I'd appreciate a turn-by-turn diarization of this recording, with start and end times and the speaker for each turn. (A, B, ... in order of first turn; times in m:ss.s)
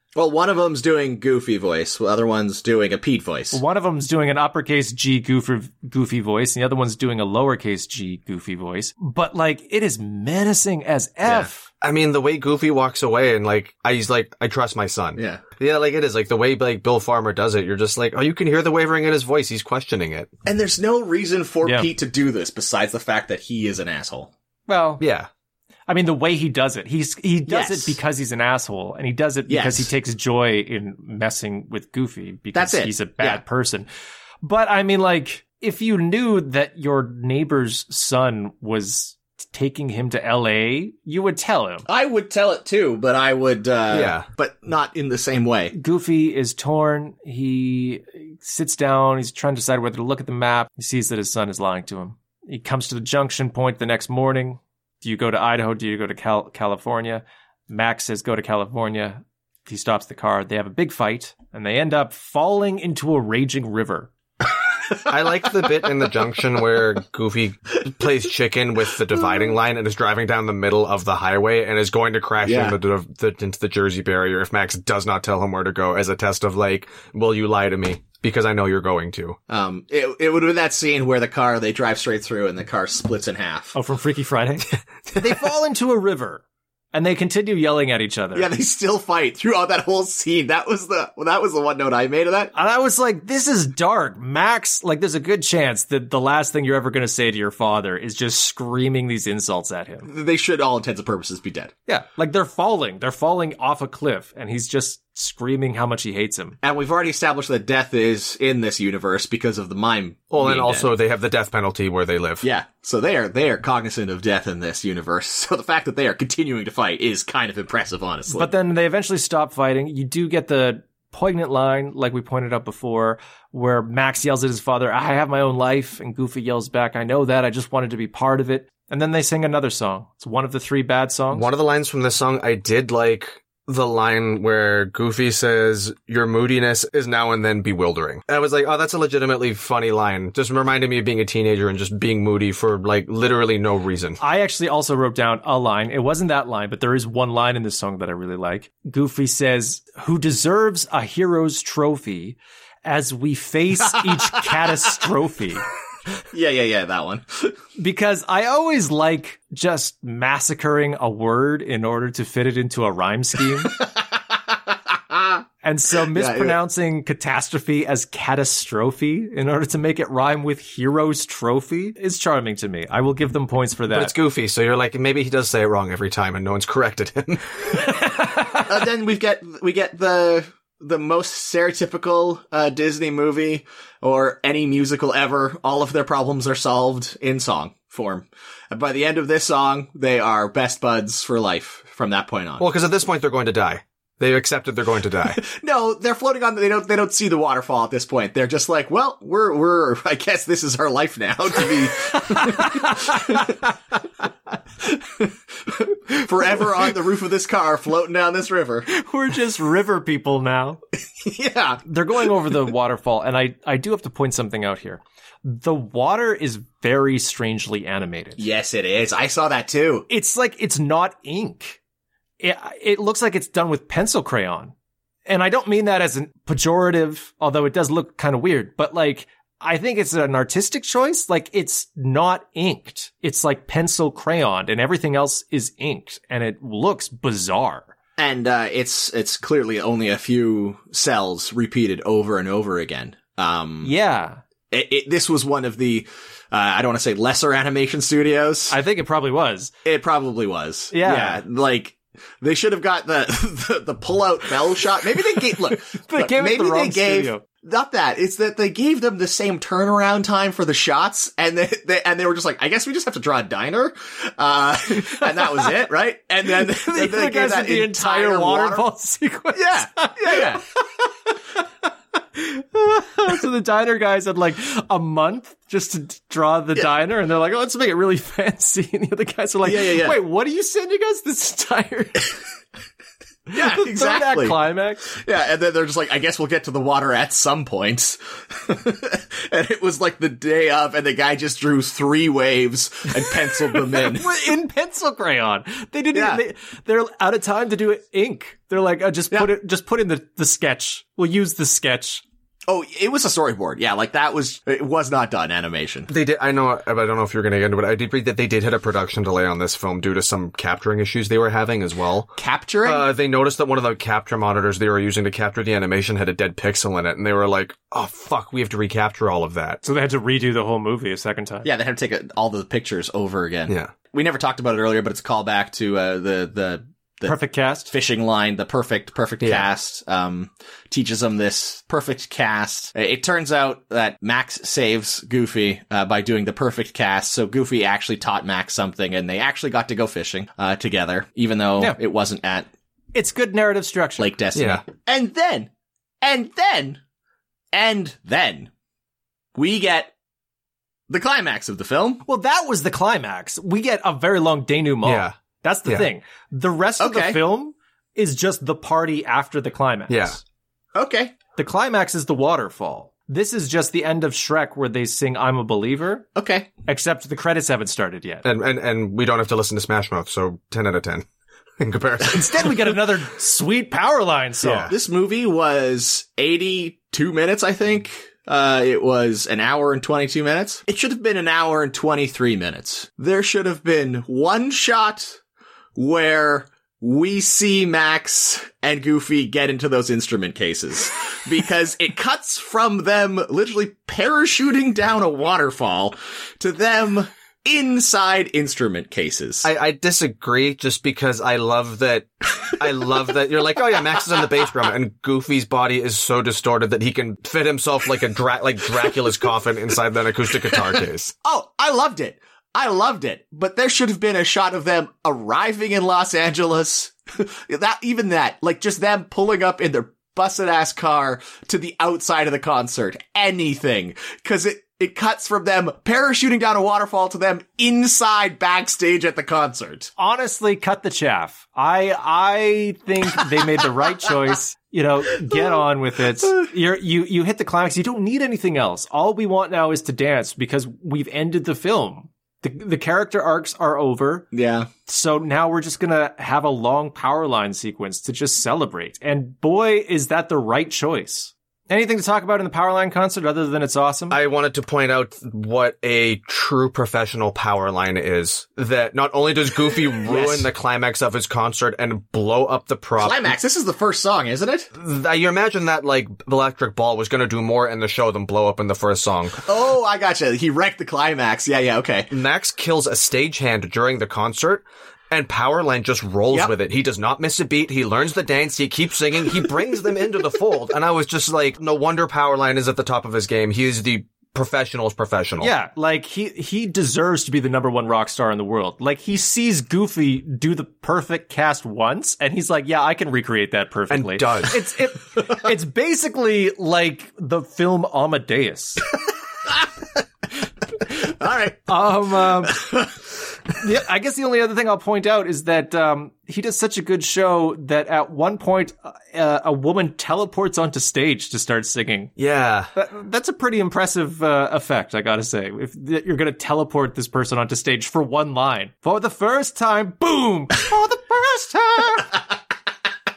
0:00.1-0:03.6 A
0:03.5-0:11.7 B
0:11.2-0:11.5 A
0:11.8-0:20.3 C
0:15.2-0:15.4 A
0:20.4-0:24.3 A
0:21.6-0:21.9 B
0:24.7-0:25.0 B
0:25.0-0:25.3 C
0:25.9-0:33.9 B
0:27.5-0:28.0 A
0:29.5-0:29.9 A
0:32.5-0:33.4 A
0:34.4-0:41.8 B
0:41.9-0:45.7 A
0:43.9-0:44.2 C
0:45.7-1:04.1 B
1:05.0-1:19.4 C
1:12.4-1:12.8 A
1:19.5-1:23.7 A
1:23.7-1:26.4 B
1:26.9-1:28.5 B
1:28.3-1:32.5 A
1:32.5-1:40.1 B
1:40.0-1:41.7 A
1:41.9-1:46.6 B
1:46.6-1:50.9 A
1:50.3-1:52.4 C
1:52.4-1:58.5 A
1:58.3-2:11.5 B
2:11.3-2:24.2 C
2:24.2-2:35.6 B
2:34.3-2:34.7 A
2:36.3-2:37.6 A
2:37.8-2:43.8 B
2:43.8-2:44.6 A
2:45.1-2:45.4 A
2:45.6-2:54.1 B
2:46.1-2:46.6 A
2:53.9-2:57.9 C
2:58.0-2:58.6 B
2:58.6-3:12.6 A
3:12.6-3:15.4 C
3:15.4-3:23.6 A
3:22.3-3:23.5 B
3:24.8-3:28.9 A
3:28.9-3:30.8 B
3:31.2-3:32.3 A
3:31.8-3:38.4 B
3:38.4-3:40.1 A
3:40.1-3:41.8 B
3:42.4-3:44.7 B
3:45.2-3:57.9 B
3:58.2-4:03.9 A
4:03.8-4:04.4 B
4:04.7-4:08.8 A
4:08.7-4:09.7 B
4:09.8-4:28.9 A
4:10.9-4:11.4 B
4:15.3-4:17.4 B
4:25.2-4:25.7 B
4:26.4-4:30.6 B
4:29.5-4:30.6 A
4:32.3-4:42.4 B
4:39.6-4:40.2 A
4:43.5-4:54.4 A
4:43.5-4:45.0 B
4:53.4-5:02.2 B
4:56.1-4:56.4 A
5:02.7-5:06.1 A
5:06.1-5:12.3 C
5:12.4-5:13.1 A
5:12.8-5:19.8 C
5:19.8-5:21.7 B
5:21.6-5:27.4 A
5:27.2-5:27.9 B
5:27.9-5:42.7 A
5:29.4-5:29.7 C
5:43.1-5:44.3 B
5:44.2-5:45.7 A
5:44.5-5:44.8 C
5:46.2-5:47.0 A
5:47.7-5:48.7 A
5:49.6-5:50.1 A
5:51.1-5:52.2 A
5:52.2-6:00.4 B
5:55.0-5:56.1 C
5:57.0-5:57.4 A
6:00.1-6:00.4 C
6:00.9-6:01.4 A
6:01.6-6:06.3 B
6:06.4-6:06.7 A
6:06.8-6:08.4 B
6:08.4-6:11.2 C
6:11.8-6:12.8 C
6:12.2-6:14.9 B
6:14.6-6:14.9 C
6:14.9-6:25.4 A
6:26.0-6:39.7 A
6:39.6-6:51.3 C
6:50.7-7:10.1 A
7:10.2-7:24.5 B
7:24.5-7:24.9 A
7:25.0-7:34.4 B
7:34.3-7:43.5 C
7:40.2-7:40.7 A
7:43.2-7:44.9 A
7:44.9-7:49.6 C
7:49.6-7:52.3 A
7:52.3-8:05.7 C
8:05.6-8:19.0 B
8:14.1-8:14.8 C
8:21.1-8:22.0 A
8:21.9-8:22.9 B
8:22.6-8:23.1 A
8:23.8-8:32.3 B
8:32.4-8:32.9 C
8:32.9-8:42.4 B